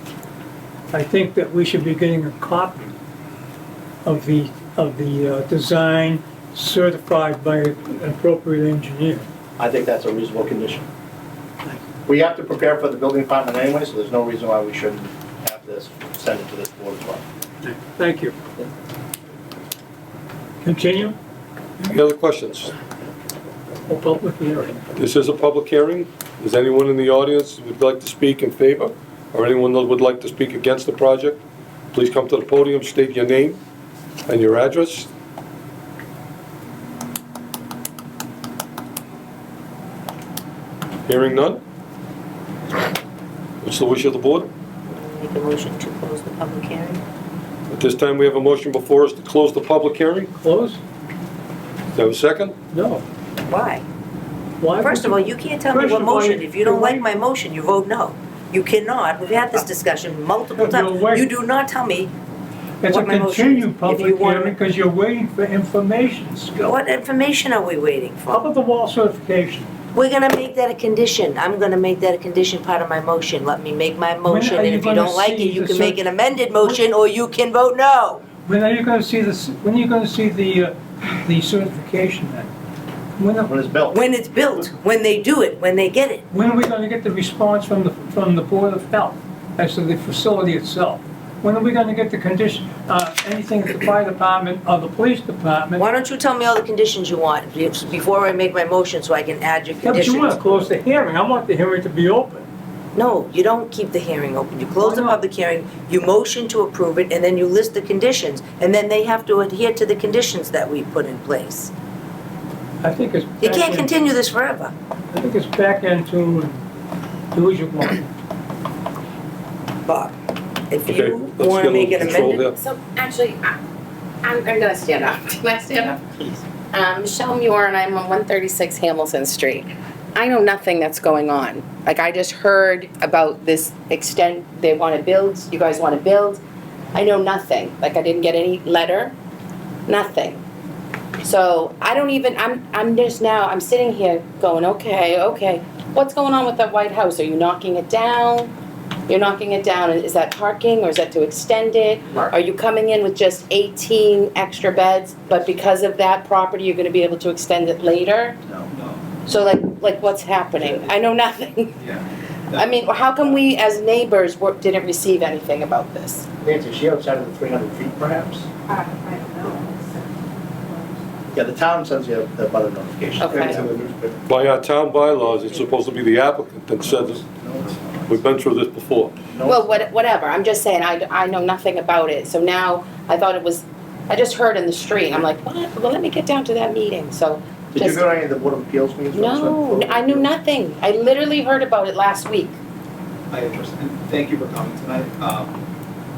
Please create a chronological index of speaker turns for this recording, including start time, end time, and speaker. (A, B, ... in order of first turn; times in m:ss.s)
0:00.9-0:02.9 A
0:04.0-0:09.2 A
0:09.6-0:10.8 B
0:12.0-0:17.2 B
0:17.6-0:18.3 A
0:20.6-0:21.2 A
0:21.8-0:22.7 C
0:23.9-0:24.8 A
0:25.0-0:31.4 C
0:31.9-0:33.6 C
0:34.3-0:35.1 C
0:41.1-0:41.6 C
0:43.6-0:44.5 C
0:44.9-0:47.0 D
0:47.7-0:50.3 C
0:50.4-0:50.8 A
0:51.9-0:52.5 C
0:52.7-0:53.0 A
0:53.5-0:53.8 D
0:54.6-0:57.2 A
0:54.8-1:02.1 D
1:00.5-1:01.3 A
1:02.8-1:06.9 A
1:02.9-1:04.5 D
1:06.6-1:08.4 D
1:08.3-1:09.7 A
1:09.9-1:18.2 D
1:14.2-1:16.8 A
1:18.3-1:22.5 A
1:23.2-1:23.5 A
1:23.4-1:24.0 B
1:23.9-1:26.2 D
1:26.3-1:35.9 A
1:35.8-1:40.5 D
1:39.8-1:42.4 A
1:42.9-1:51.7 D
1:44.8-1:45.2 A
1:52.8-1:54.1 A
1:53.4-1:54.7 D
1:55.1-1:56.6 A
1:57.3-1:58.1 A
1:59.8-2:00.1 D
2:00.7-2:02.3 D
2:00.9-2:02.6 C
2:02.2-2:03.6 E
2:04.2-2:06.0 E
2:06.7-2:16.4 E
2:16.9-2:19.1 E
2:19.9-2:20.4 E
2:21.2-2:28.5 E
2:29.1-2:38.4 E
2:38.5-2:39.0 F
2:39.2-2:41.8 E
2:40.6-2:41.0 F
2:41.8-2:42.7 F
2:42.5-2:46.3 E
2:46.4-2:48.5 B
2:48.7-2:49.9 E
2:51.3-2:54.2 B
2:53.2-2:53.6 E
2:54.3-2:57.2 C
2:56.8-2:58.2 B
2:58.1-2:59.1 C
2:59.3-2:59.8 B
2:59.4-3:08.1 E
3:07.7-3:10.3 B
3:09.1-3:12.6 E
3:13.3-3:15.6 F